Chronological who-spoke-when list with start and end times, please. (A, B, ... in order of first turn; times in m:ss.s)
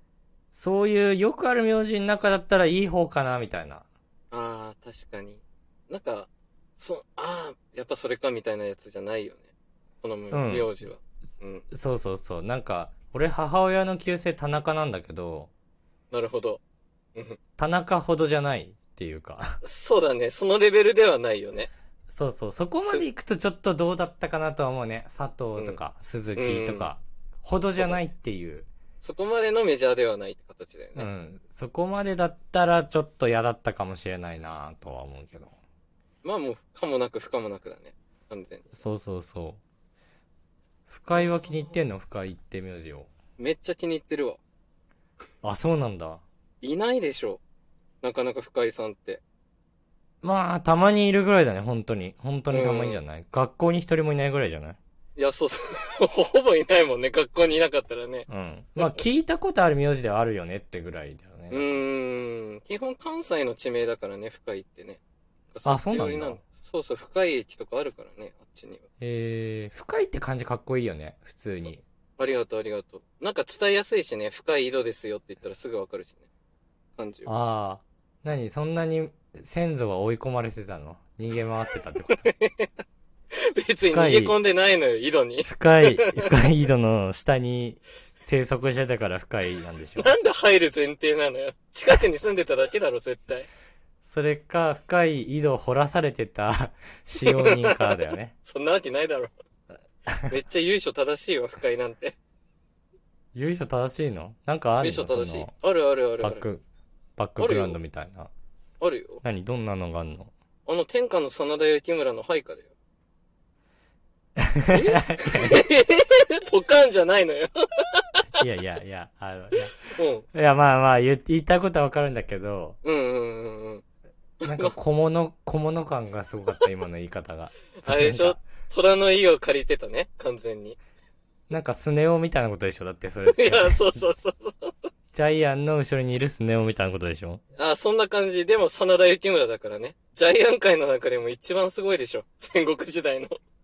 0:00.5-0:03.8 A
0:04.3-0:09.5 B
0:10.0-0:11.6 B
0:10.3-0:10.7 A
0:11.7-0:15.5 A
0:16.1-0:16.6 B
0:17.6-0:19.6 A
0:19.6-0:21.7 B
0:22.1-0:28.7 A
0:26.3-0:26.9 B
0:27.8-0:28.0 B
0:29.0-0:31.1 B
0:31.0-0:35.5 A
0:36.2-0:38.8 B
0:38.7-0:39.6 A
0:40.9-0:43.1 A
0:41.2-0:41.5 B
0:43.4-0:44.4 B
0:45.4-0:46.2 A
0:46.6-0:47.4 B
0:48.0-0:49.2 B
0:50.2-0:54.8 A
0:52.5-0:53.0 B
0:55.2-0:58.3 B
0:58.3-1:01.7 A
1:01.5-1:05.0 B
1:05.5-1:08.8 B
1:05.6-1:06.4 A
1:09.0-1:11.8 A
1:12.2-1:16.2 B
1:17.0-1:17.3 B
1:17.2-1:22.3 A
1:22.1-1:22.7 B
1:23.3-1:26.3 B
1:23.9-1:24.4 A
1:25.4-1:30.1 A
1:30.0-1:33.5 B
1:34.0-1:38.3 A
1:37.2-1:39.3 B
1:40.1-1:40.3 A
1:40.3-1:42.1 B
1:43.3-1:45.5 A
1:44.8-1:46.4 B
1:46.2-1:46.6 A
1:47.2-1:48.3 A
1:47.4-1:47.8 B
1:48.8-1:49.2 B
1:49.2-1:50.3 A
1:50.6-1:52.7 B
1:54.4-1:55.6 A
1:54.7-1:58.2 B
1:58.4-1:59.8 A
1:59.9-2:00.2 B
2:00.3-2:02.8 A
2:02.8-2:03.8 B
2:04.4-2:04.7 B
2:04.4-2:08.4 A
2:07.8-2:10.8 B
2:11.5-2:14.0 A
2:13.3-2:14.9 B
2:15.1-2:17.4 A
2:17.6-2:23.4 B